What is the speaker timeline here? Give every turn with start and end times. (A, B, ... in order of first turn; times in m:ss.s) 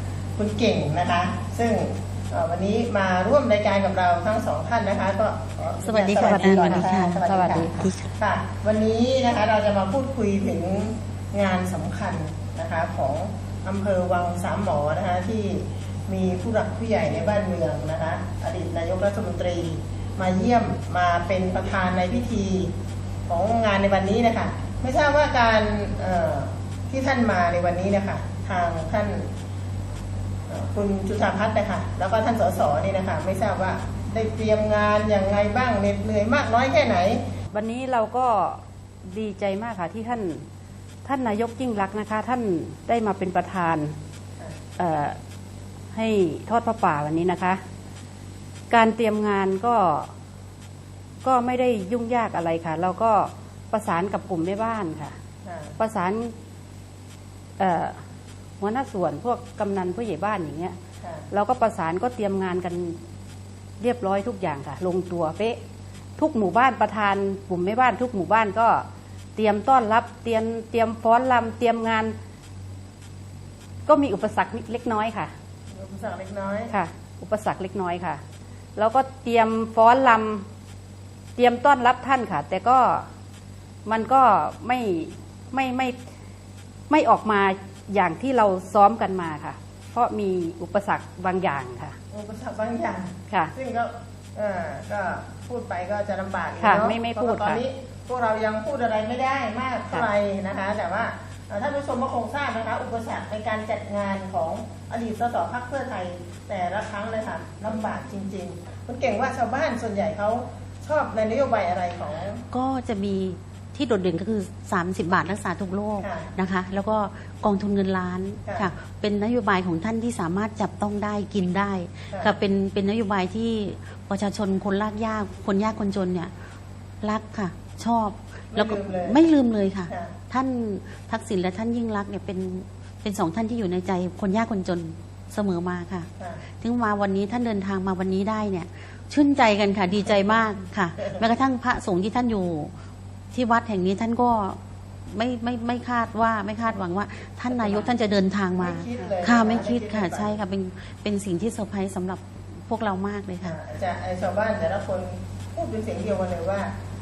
0:00.4-0:22.7 A
0:05.8-0:07.2 B
0:06.1-0:08.0 C
0:07.7-0:08.0 B
0:23.3-0:29.3 A
0:30.5-0:37.2 A
0:37.5-0:40.4 C
0:41.0-0:43.9 C
0:44.8-0:45.2 C
0:45.9-0:47.6 C
0:48.7-0:50.1 C
0:51.2-0:55.1 C
0:55.4-0:55.8 A
0:55.8-0:56.3 C
0:57.6-0:58.0 C
0:58.6-1:00.8 C
1:01.0-1:01.3 A
1:01.3-1:03.0 C
1:03.8-1:05.6 C
1:06.2-1:12.2 C
1:13.8-1:15.3 C
1:15.7-1:16.7 A
1:16.7-1:18.2 C
1:18.8-1:20.4 C
1:21.4-1:23.0 C
1:23.8-1:26.0 C
1:26.9-1:31.9 C
1:32.1-1:52.4 A
1:36.6-1:37.6 C
1:52.5-2:06.3 B
1:56.0-1:56.3 A
2:07.0-2:16.1 B
2:08.5-2:09.2 A
2:09.9-2:10.1 A
2:16.6-2:22.7 B
2:21.0-2:21.2 A
2:23.3-2:33.6 B
2:27.5-2:27.9 A
2:28.6-2:30.4 A
2:33.4-2:36.7 A